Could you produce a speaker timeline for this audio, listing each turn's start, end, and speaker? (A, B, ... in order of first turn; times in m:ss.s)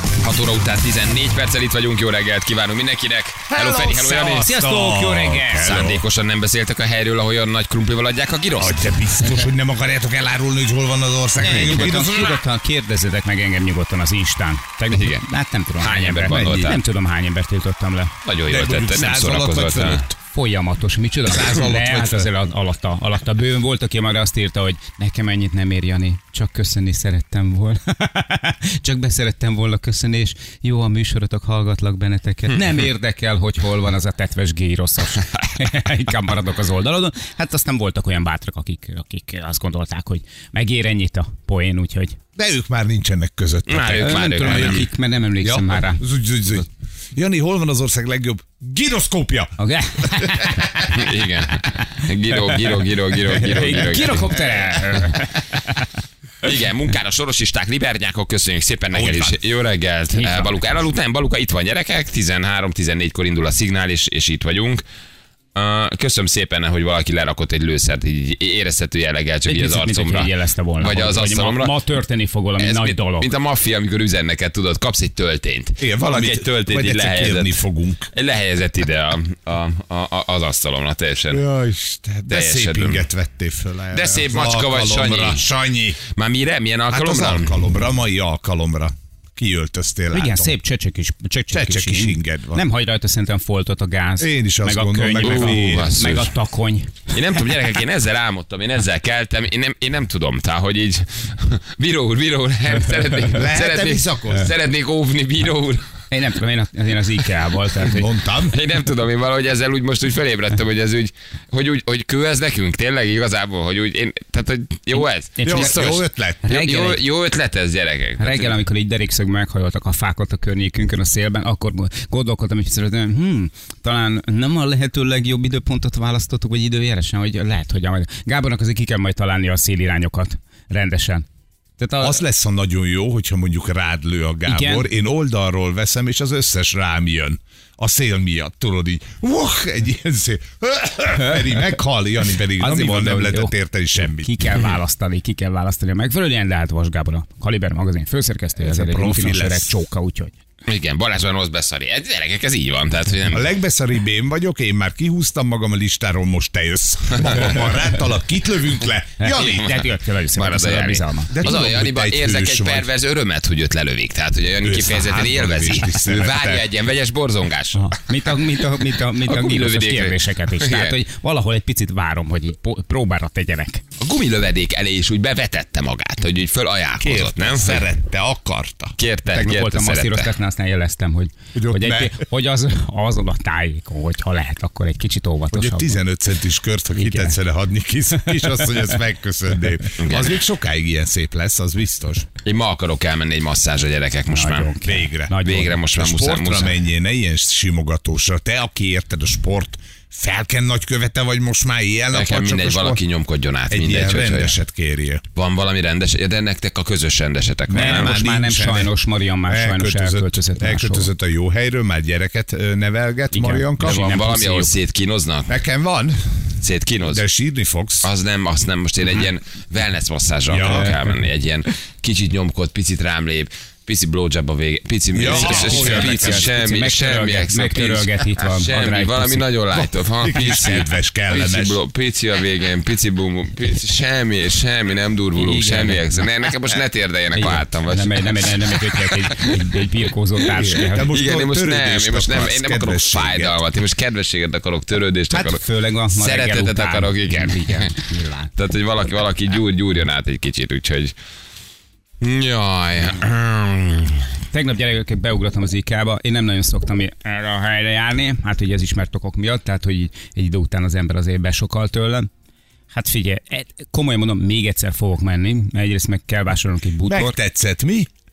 0:00.2-0:04.5 A
0:03.5-0:06.0 B
0:04.3-0:05.7 C
0:05.6-0:08.8 A
0:08.6-0:12.4 B
0:11.4-0:18.1 C
0:14.9-0:15.3 A
0:15.8-0:16.8 A
0:16.2-0:16.8 B
0:18.3-0:20.0 A
0:18.5-0:20.2 B
0:20.3-0:42.2 C
0:21.3-0:22.3 B
0:42.4-0:50.9 B
0:43.7-0:44.9 A
0:44.0-0:46.0 C
0:49.6-0:50.9 C
0:50.9-0:54.4 A
0:53.3-0:55.9 C
0:56.4-1:04.8 A
0:58.9-0:59.4 B
1:00.1-1:00.9 C
1:05.6-1:11.8 A
1:09.5-1:13.3 C
1:12.6-1:17.6 A
1:15.8-1:18.1 B
1:18.1-1:21.4 A
1:21.3-1:26.0 B
1:22.3-1:23.1 A
1:23.9-1:25.5 A
1:26.1-1:27.6 A
1:26.9-1:30.6 B
1:30.1-1:37.1 C
1:31.5-1:32.6 B
1:34.2-1:36.2 B
1:35.2-1:36.3 A
1:37.1-1:45.8 A
1:43.3-1:44.5 B
1:46.1-1:48.1 C
1:47.8-1:48.6 B
1:48.5-1:58.6 A
1:55.4-1:55.9 C
1:55.5-1:56.6 B
1:56.5-1:57.0 C
1:58.2-2:11.3 C
2:11.8-2:12.2 C
2:12.0-2:24.6 B
2:14.5-2:14.9 C
2:22.6-2:30.4 C
2:28.6-2:29.7 B
2:30.7-2:33.5 A
2:33.3-2:39.8 B
2:39.2-2:41.4 C
2:40.4-2:48.0 A
2:41.3-2:42.9 B
2:44.6-2:46.7 B
2:47.7-2:53.8 C
2:49.2-2:51.0 A
2:54.0-2:57.9 A
2:57.0-2:59.0 B
2:59.0-3:00.3 A
2:59.3-3:06.0 C
3:01.6-3:02.2 B
3:05.5-3:12.3 B
3:06.9-3:07.4 C
3:10.0-3:10.4 A
3:12.4-3:14.7 A
3:14.3-3:15.8 C
3:14.8-3:23.0 B
3:15.4-3:16.8 A
3:22.1-3:24.6 A
3:23.7-3:25.2 B
3:25.4-3:28.1 A
3:27.7-3:34.1 B
3:27.8-3:31.1 C
3:33.3-3:34.8 C
3:33.8-3:35.6 A
3:35.5-3:38.1 B
3:36.6-3:37.2 A
3:38.0-3:59.5 A
3:40.5-3:41.2 B
3:45.1-3:46.5 B
3:45.2-3:49.5 C
3:49.7-3:51.8 B
3:55.4-3:56.3 C
3:57.4-4:01.1 C
4:00.5-4:03.6 B
4:00.5-4:07.9 A
4:05.3-4:08.5 C
4:08.6-4:11.1 A
4:12.2-4:14.3 A
4:14.5-4:22.3 C
4:22.9-4:27.4 C
4:27.1-4:28.1 B